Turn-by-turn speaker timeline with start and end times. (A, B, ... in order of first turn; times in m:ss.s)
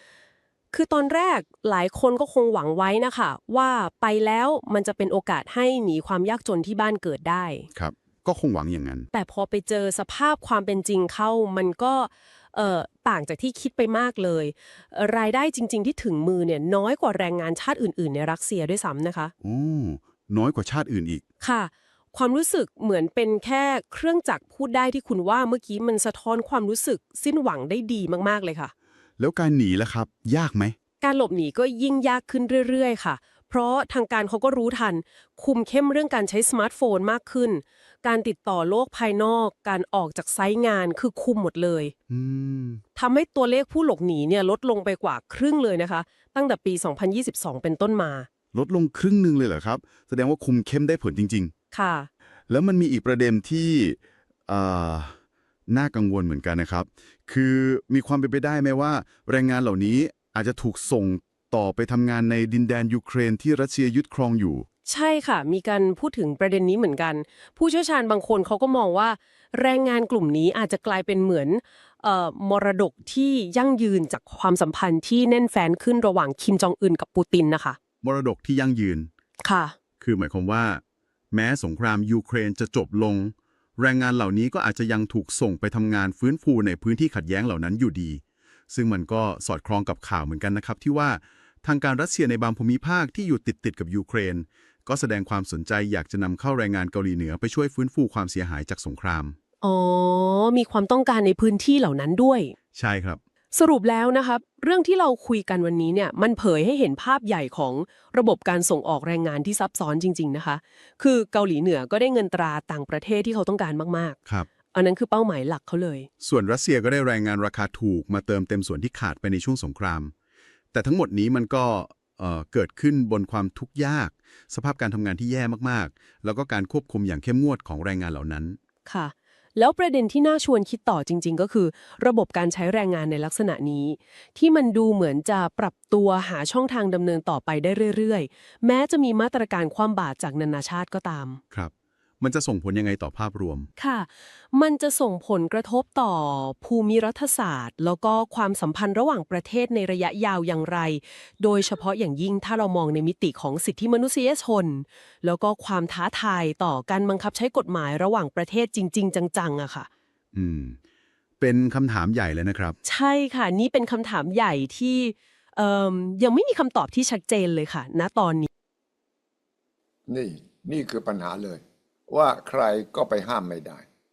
0:00.7-0:07.7 A
0:07.7-0:09.1 B
0:09.1-0:19.3 A
0:19.4-0:21.2 B
0:21.4-0:28.7 A
0:29.2-0:30.8 B
0:31.0-0:41.9 A
0:42.1-0:42.8 B
0:43.0-0:48.3 A
0:48.5-0:51.5 B
0:51.7-0:52.1 A
0:52.5-0:55.2 B
0:55.7-1:04.7 B
1:04.9-1:17.8 A
1:18.0-1:19.1 B
1:19.4-1:19.8 A
1:20.0-1:39.4 B
1:39.6-1:42.6 A
1:42.8-1:43.2 B
1:43.5-1:54.2 A
1:54.7-1:56.1 A
1:56.2-2:00.1 B
2:00.7-2:08.6 B
2:08.9-2:21.4 A
2:21.5-2:23.7 B
2:23.8-2:39.9 A
2:40.3-2:40.8 B
2:41.4-2:42.8 B
2:42.8-2:48.5 A
2:50.1-2:53.8 C